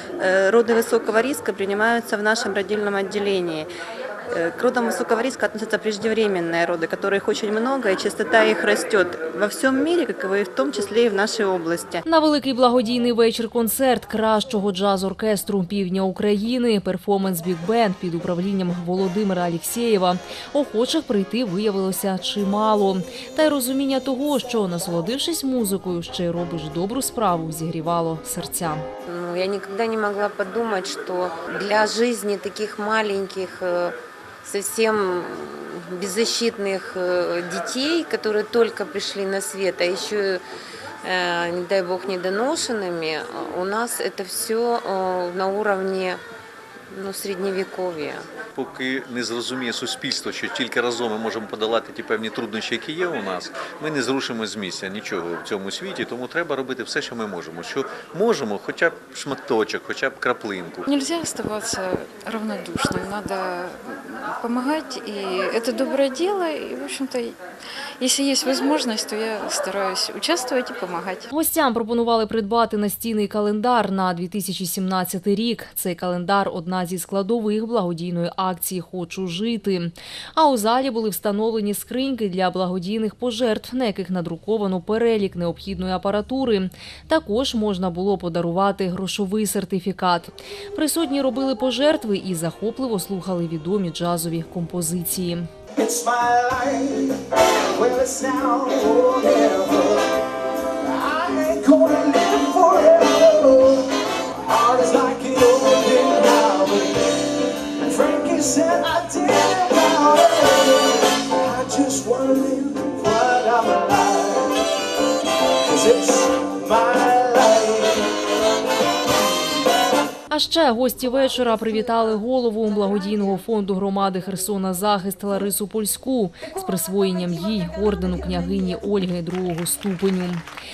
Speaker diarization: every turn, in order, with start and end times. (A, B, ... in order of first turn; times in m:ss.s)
0:00.2-0:03.7 A
0:04.3-0:12.0 A
0:12.0-0:28.8 B
0:29.1-0:40.4 C
0:41.0-0:46.2 C
0:46.9-0:48.3 C
0:48.6-1:00.9 D
1:00.9-1:07.4 E
1:08.0-1:11.3 E
1:11.3-1:35.5 B
1:35.8-1:37.2 F
1:37.7-1:40.2 F
1:40.8-1:43.9 F
1:44.5-1:54.5 F
1:55.7-1:58.1 F
2:00.3-2:10.4 B